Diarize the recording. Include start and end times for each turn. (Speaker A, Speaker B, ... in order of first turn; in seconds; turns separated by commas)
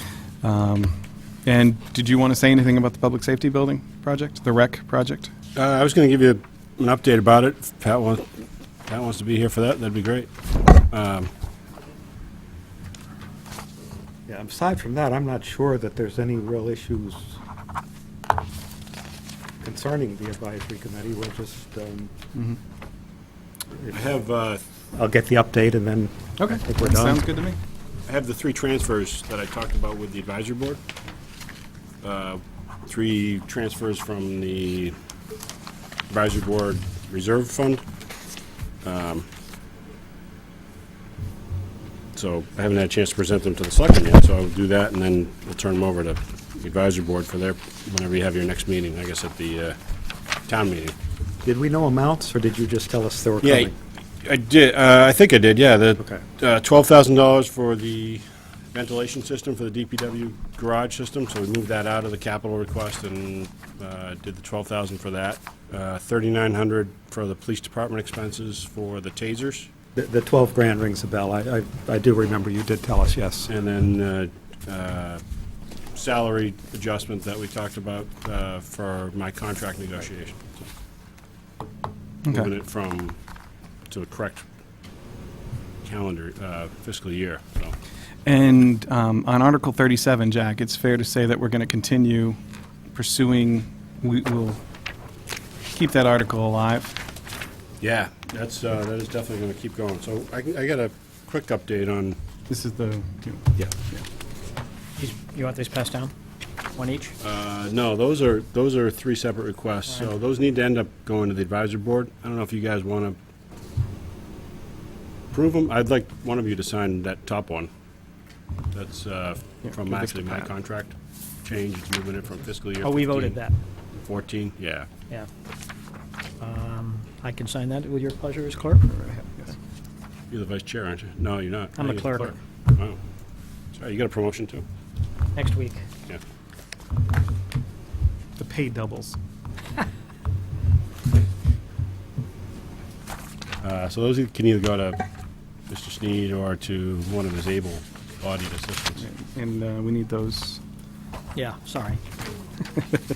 Speaker A: 0.4-5.3, Speaker B: 5.5-10.3, Speaker B: 10.9-11.3, Speaker C: 14.3-17.4, Speaker C: 19.6-22.1, Speaker C: 23.8-24.1, Speaker B: 23.9-24.6, Speaker C: 24.9-27.2, Speaker A: 26.4-27.6, Speaker B: 28.1-30.8, Speaker B: 32.0-35.0, Speaker B: 36.1-37.8, Speaker B: 38.8-39.3, Speaker B: 42.2-49.8, Speaker B: 50.5-51.0, Speaker C: 51.4-53.7, Speaker B: 53.4-53.7, Speaker B: 54.2-69.7, Speaker C: 70.0-73.5, Speaker B: 73.5-75.2, Speaker B: 75.9-80.7, Speaker B: 82.3-83.2, Speaker B: 83.9-84.5, Speaker B: 85.8-87.8, Speaker A: 88.3-92.4, Speaker A: 92.9-94.6, Speaker A: 95.7-96.9, Speaker B: 97.8-102.2, Speaker A: 102.5-104.0, Speaker D: 105.0-106.1, Speaker D: 106.8-107.2, Speaker B: 107.2-113.2, Speaker B: 115.3-117.7, Speaker B: 118.7-123.4, Speaker A: 119.6-120.5, Speaker D: 122.8-123.5, Speaker B: 124.0-124.9, Speaker D: 126.4-128.8, Speaker A: 128.9-129.5, Speaker B: 130.3-133.0, Speaker D: 131.8-132.3, Speaker B: 133.7-134.7, Speaker D: 135.3-135.8, Speaker A: 138.4-139.2, Speaker B: 143.6-145.0, Speaker B: 145.7-149.1, Speaker A: 149.0-150.6, Speaker D: 151.3-152.0